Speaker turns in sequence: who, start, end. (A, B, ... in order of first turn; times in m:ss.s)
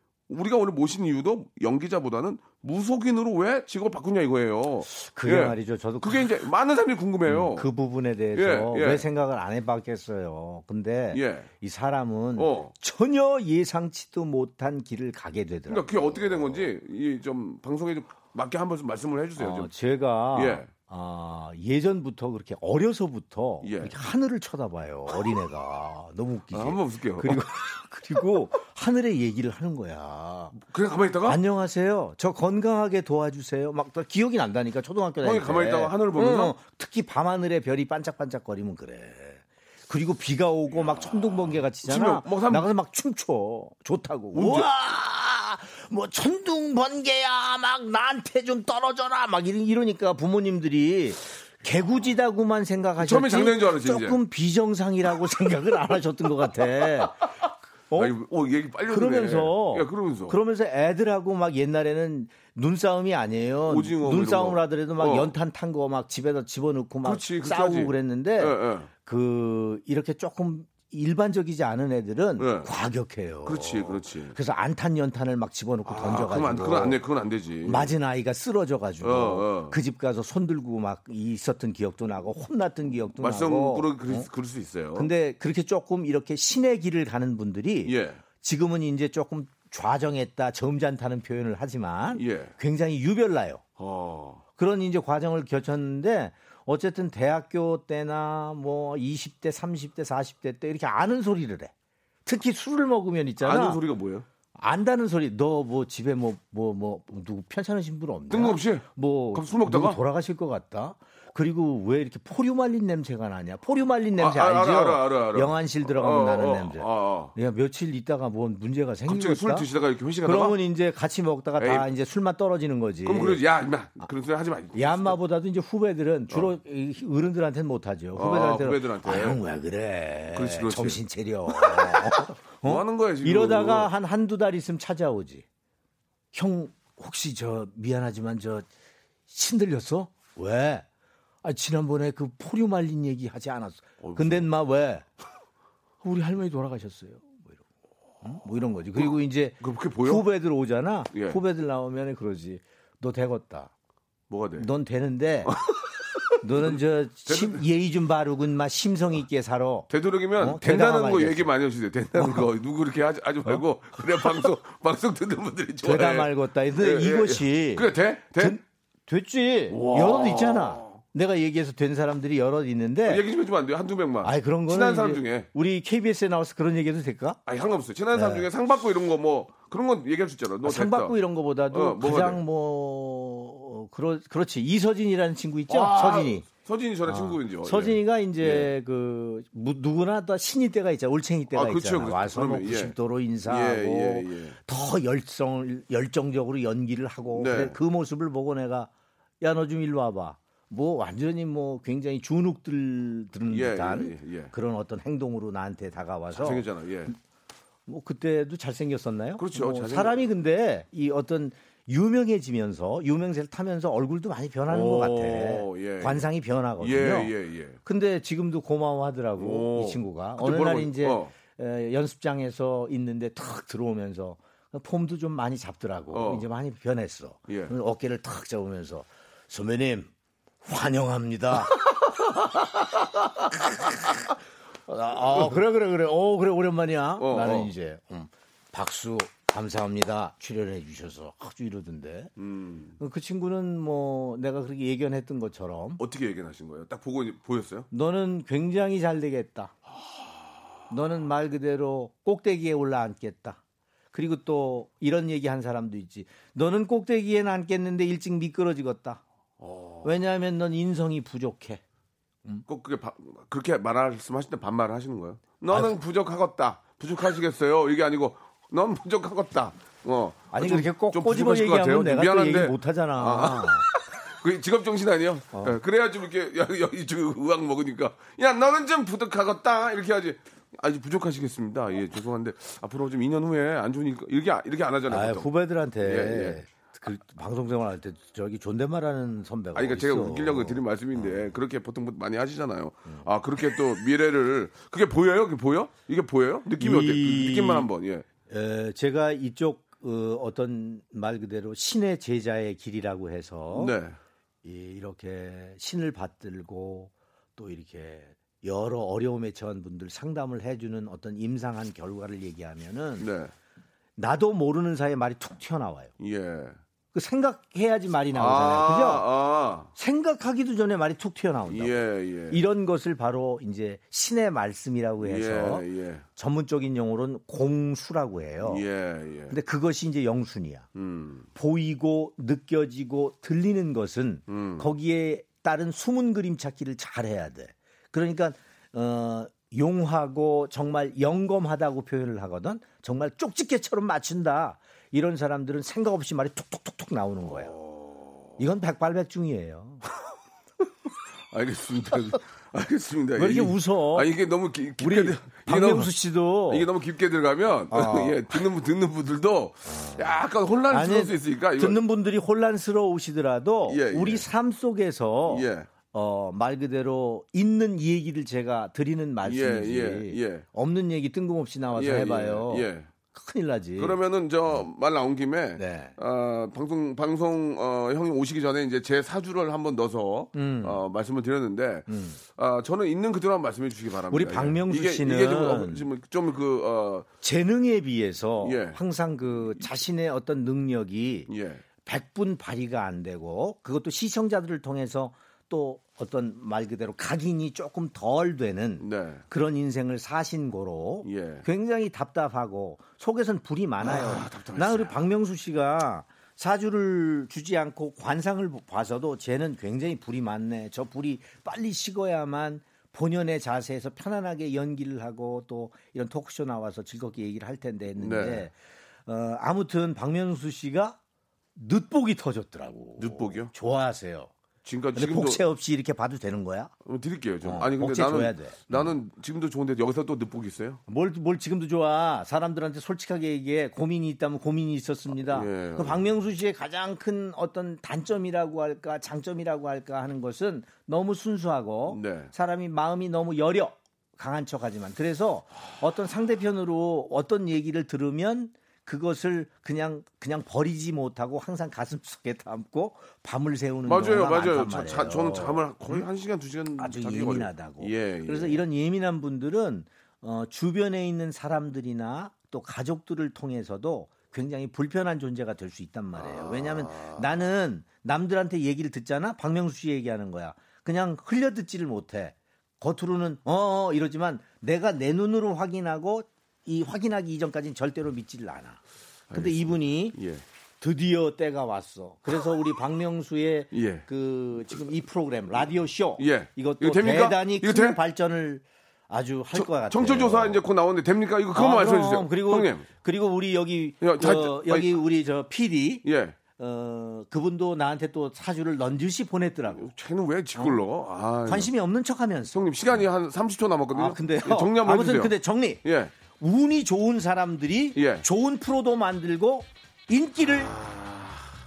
0:00.3-0:07.7 A
0:04.9-0:06.3 B
0:07.3-0:16.6 B
0:08.4-0:09.0 A
0:11.1-0:11.5 A
0:12.4-0:12.7 A
0:15.7-0:19.7 A
0:19.4-0:30.6 B
0:20.4-0:20.7 A
0:23.6-0:23.9 A
0:26.5-0:27.5 A
0:30.6-0:31.4 A
0:31.2-0:57.3 B
0:35.2-0:36.6 A
0:41.8-0:42.7 A
0:44.3-0:44.7 A
0:53.0-0:54.2 A
0:57.9-0:58.1 B
0:57.9-1:00.4 A
0:58.9-1:17.0 B
1:03.6-1:05.3 A
1:07.0-1:08.9 A
1:12.4-1:12.7 A
1:13.4-1:14.4 A
1:15.8-1:17.9 A
1:17.6-1:24.3 B
1:19.0-1:19.8 A
1:23.2-1:25.1 A
1:25.0-1:33.6 B
1:27.9-1:28.2 A
1:32.1-1:32.5 A
1:33.8-1:34.4 A
1:34.6-1:41.7 B
1:42.2-1:43.8 B
1:43.4-1:44.2 A
1:44.6-1:59.7 B
1:48.3-1:50.0 A
1:54.2-1:57.3 A
1:59.1-2:00.6 A
2:00.2-2:03.4 B
2:01.6-2:01.9 A
2:03.0-2:05.2 A
2:04.8-2:15.4 B
2:08.1-2:09.4 A
2:10.3-2:13.9 A
2:16.3-2:18.7 B
2:19.3-2:20.9 B
2:21.4-2:25.0 B
2:24.0-2:24.5 A
2:26.0-2:27.6 B
2:28.2-2:33.7 B
2:29.0-2:30.2 A
2:31.1-2:31.4 A
2:34.3-2:34.7 A
2:34.6-2:35.5 B
2:35.5-2:36.8 A
2:36.4-2:41.5 B
2:37.3-2:37.6 A
2:39.9-2:48.6 A
2:42.1-2:42.5 B
2:45.8-2:53.2 B
2:49.7-2:51.0 A
2:53.1-2:55.5 A
2:54.2-2:57.4 B
2:57.5-3:01.2 A
2:58.1-2:58.5 B
3:00.6-3:06.5 B
3:01.7-3:02.4 A
3:05.7-3:08.7 A
3:07.1-3:18.9 B
3:11.5-3:12.9 A
3:13.5-3:14.6 A
3:17.3-3:17.8 A
3:19.4-3:27.1 B
3:23.5-3:24.5 A
3:26.3-3:27.1 A
3:27.9-3:37.3 B
3:29.4-3:30.2 A
3:34.7-3:36.2 A
3:36.8-3:37.8 A
3:37.8-3:50.1 B
3:39.4-3:41.3 A
3:46.1-3:46.5 A
3:47.5-3:47.7 A
3:50.6-3:51.8 B
3:53.7-3:54.2 B
3:54.9-4:02.3 B
3:57.2-3:57.7 A
4:02.4-4:03.0 A
4:03.0-4:06.0 B
4:06.0-4:07.9 A
4:07.9-4:09.7 B
4:10.1-4:10.4 A
4:10.9-4:13.6 B
4:14.1-4:19.2 B
4:19.6-4:20.2 A
4:20.0-4:21.8 B
4:22.7-4:45.5 A
4:25.7-4:26.0 B
4:30.5-4:33.9 B
4:45.1-4:51.6 B
4:46.0-4:46.6 A
4:49.8-4:58.2 A
4:56.8-4:57.9 B
4:58.5-5:04.0 B
5:03.7-5:04.2 A
5:04.6-5:13.3 B
5:13.2-5:13.5 A
5:14.2-5:16.1 B
5:16.2-5:16.8 A
5:17.1-5:19.2 B
5:18.3-5:19.9 A
5:20.0-5:25.8 B
5:21.7-5:22.6 A
5:25.2-5:26.2 A
5:26.4-5:28.8 B
5:28.6-5:29.5 A
5:29.5-5:30.9 B
5:30.9-5:31.5 A
5:31.6-5:47.7 B
5:34.5-5:34.9 A
5:47.4-5:48.5 A
5:48.6-5:50.0 B
5:51.5-5:56.1 A
5:53.4-5:54.3 B
5:55.0-5:56.9 B
5:56.7-6:02.0 A
5:57.9-5:58.5 B
5:59.8-6:00.3 B
6:00.9-6:14.2 B
6:03.9-6:04.4 A
6:05.5-6:05.9 A
6:09.4-6:10.6 A
6:11.9-6:13.1 A
6:14.0-6:27.3 A
6:15.8-6:16.1 B
6:20.5-6:21.0 B
6:22.1-6:22.4 B
6:24.3-6:26.1 B
6:27.4-6:31.5 B
6:28.6-6:29.0 A
6:31.5-6:31.8 A
6:32.0-6:58.7 B
6:39.0-6:39.4 A
6:41.2-6:41.6 A
6:44.0-6:45.2 A
6:58.2-6:58.7 A
6:59.3-7:01.2 B
7:01.8-7:04.5 B
7:03.2-7:03.7 A
7:04.8-7:05.6 A
7:05.1-7:06.9 B
7:07.0-7:11.0 A
7:07.6-7:09.1 B
7:11.1-7:36.2 B
7:15.3-7:16.3 A
7:22.1-7:22.5 A
7:34.0-7:38.8 A
7:37.0-7:59.0 B
7:46.4-7:47.7 A
7:59.5-8:00.6 A
7:59.5-8:00.4 B
8:01.0-8:10.8 B
8:03.9-8:04.3 A
8:06.4-8:08.2 A
8:09.7-8:13.1 A
8:11.7-8:16.2 B
8:14.2-8:15.2 A
8:16.2-8:16.6 A
8:16.8-8:20.1 B
8:19.9-8:21.9 A
8:20.8-8:21.0 B
8:21.6-8:22.8 B
8:22.7-8:26.3 A
8:24.1-8:26.0 B
8:26.6-8:30.9 B
8:28.1-8:28.4 A
8:31.0-8:31.6 A